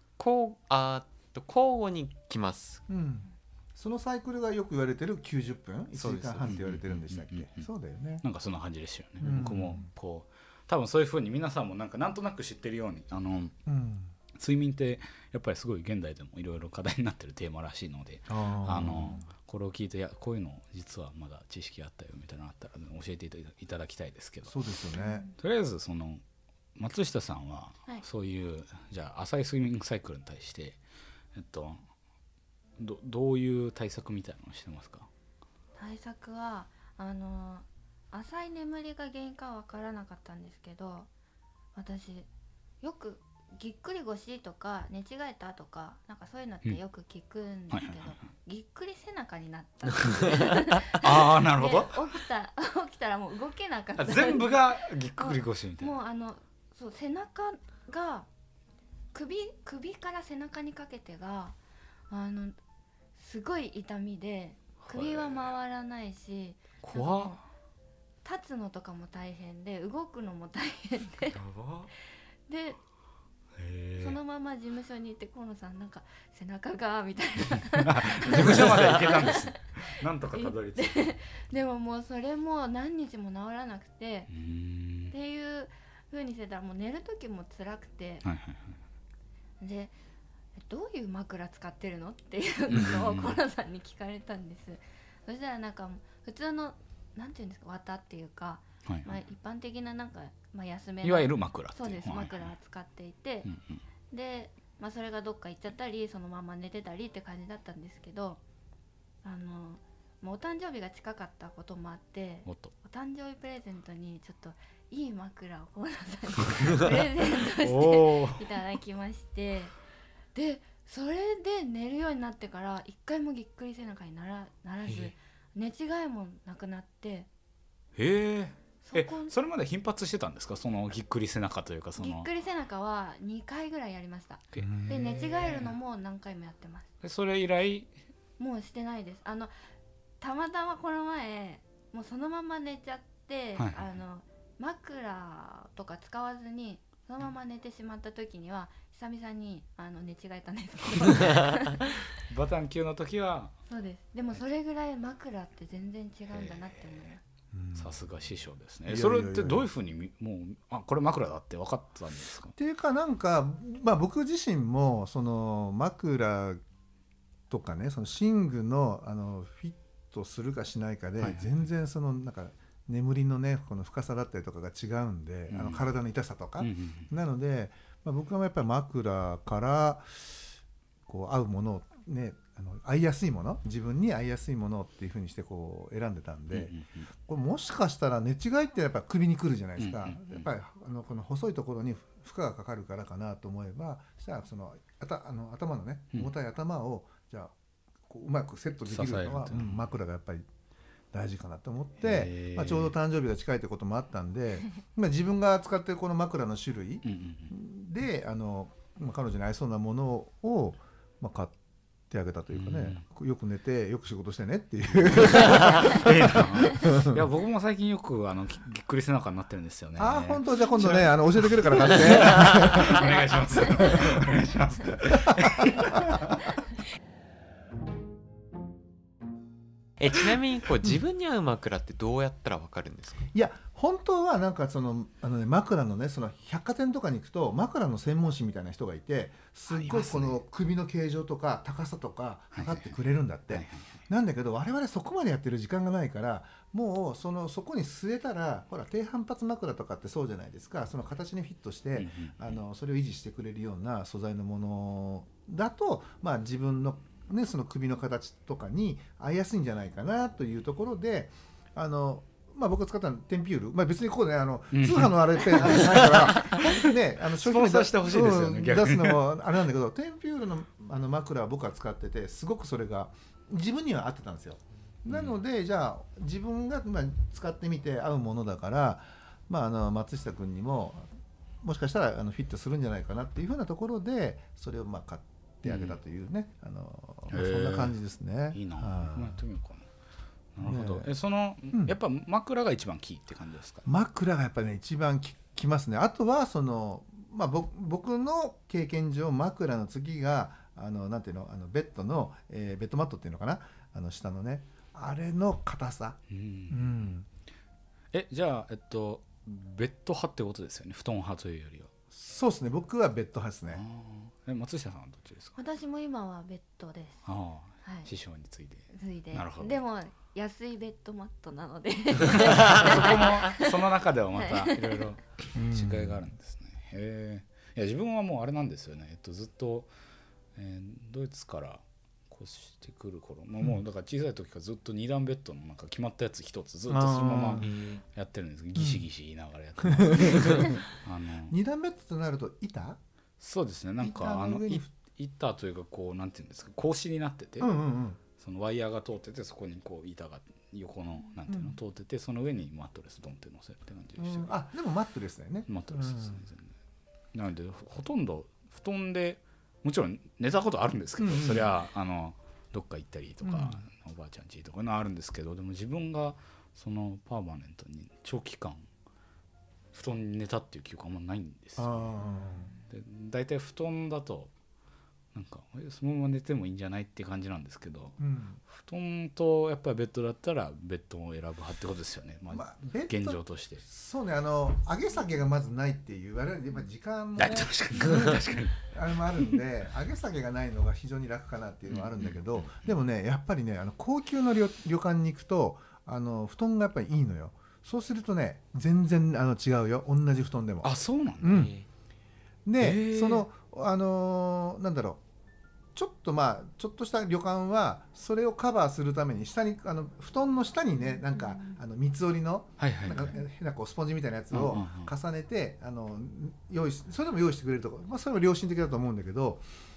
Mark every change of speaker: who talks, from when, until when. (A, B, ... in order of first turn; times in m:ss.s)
0:00.2-0:02.8 A
0:02.9-0:08.2 B
0:05.9-0:06.6 A
0:06.4-0:07.7 C
0:08.2-0:13.5 C
0:09.2-0:09.9 B
0:13.6-0:14.1 B
0:14.3-0:24.6 C
0:18.3-0:19.2 B
0:24.5-0:25.3 B
0:24.9-0:25.3 D
0:25.4-0:26.2 C
0:26.8-0:30.8 C
0:31.3-0:31.8 C
0:32.8-0:35.1 C
0:35.8-0:41.1 D
0:41.7-0:42.3 D
0:42.8-0:58.3 D
0:47.7-0:48.2 C
0:50.9-0:52.0 C
0:54.0-0:55.9 C
0:59.1-1:01.6 D
1:02.1-1:02.6 D
1:03.1-1:07.4 D
1:04.8-1:05.5 C
1:06.8-1:07.4 C
1:08.2-1:11.4 D
1:11.3-1:11.9 C
1:12.5-1:12.8 D
1:13.6-1:14.2 C
1:14.0-1:19.5 D
1:17.5-1:21.2 C
1:20.3-1:24.3 D
1:24.3-1:25.1 C
1:25.1-1:28.2 D
1:28.2-1:28.8 C
1:29.6-1:29.9 D
1:30.6-1:43.5 D
1:32.7-1:33.4 C
1:38.8-1:39.1 C
1:41.0-1:42.5 C
1:43.4-1:43.8 C
1:44.1-1:48.4 D
1:49.2-1:59.8 D
1:52.4-1:52.7 C
1:57.6-1:58.5 C
2:00.3-2:07.3 D
2:04.8-2:05.1 C
2:07.9-2:12.3 C
2:08.8-2:09.3 D
2:12.0-2:16.9 D
2:14.5-2:15.7 C
2:14.6-2:15.1 B
2:17.0-2:17.9 C
2:18.4-2:19.5 D
2:20.2-2:31.9 D
2:23.6-2:23.8 C
2:32.2-2:33.5 C
2:33.7-2:37.2 D
2:36.3-2:37.1 C
2:37.5-2:38.0 B
2:37.7-2:42.6 C
2:38.8-2:39.7 B
2:42.6-2:46.6 B
2:47.5-3:00.5 B
2:51.2-2:51.6 C
2:55.5-2:55.9 C
2:56.6-2:57.1 C
3:01.1-3:17.5 B
3:06.5-3:07.1 C
3:09.8-3:10.5 C
3:18.1-3:20.4 B
3:18.9-3:19.9 C
3:21.1-3:31.6 B
3:22.0-3:22.9 C
3:27.0-3:27.5 C
3:32.1-3:37.2 B
3:32.5-3:33.0 C
3:35.0-3:46.4 C
3:40.0-3:44.2 B
3:45.1-3:46.2 B
3:50.0-3:53.3 A
3:53.3-4:41.1 B
3:59.7-4:00.4 C
4:02.5-4:04.0 C
4:11.9-4:12.6 C
4:24.7-4:29.3 C
4:35.1-4:35.4 C
4:41.6-4:49.4 B
4:45.6-4:46.0 C
4:47.3-4:48.0 C
4:48.5-4:49.9 C
4:50.5-4:53.9 C
4:50.6-4:51.1 B
4:53.8-5:07.2 B
5:06.3-5:07.1 C
5:08.1-5:11.9 C
5:12.1-5:13.8 B
5:13.7-5:15.6 C
5:15.6-5:17.3 D
5:17.2-5:19.8 C
5:17.8-5:18.1 D
5:18.9-5:23.7 D
5:22.2-5:29.9 C
5:24.4-5:25.1 D
5:25.5-5:26.3 B
5:30.6-5:41.6 C
5:36.9-5:37.8 B
5:37.6-5:38.0 A
5:38.8-5:39.0 B
5:39.8-5:40.8 B
5:41.4-5:43.0 B
5:43.4-5:47.7 C
5:44.0-5:44.9 B
5:47.6-5:48.2 B
5:48.3-5:54.6 C
5:51.5-5:51.7 B
5:54.2-5:56.4 B
5:55.7-5:56.7 C
5:57.3-6:08.9 C
6:01.2-6:01.7 B
6:03.4-6:03.8 B
6:09.9-6:12.3 C
6:11.8-6:12.7 B
6:12.8-6:14.5 C
6:15.3-6:23.8 C
6:18.2-6:18.6 B
6:22.5-6:41.7 B
6:27.4-6:28.9 C
6:31.9-6:32.9 C
6:40.8-6:41.7 C
6:41.4-6:41.9 A
6:42.6-6:45.2 B
6:42.8-6:43.5 C
6:45.9-6:59.7 B
6:52.8-6:53.4 C
6:54.5-6:55.1 C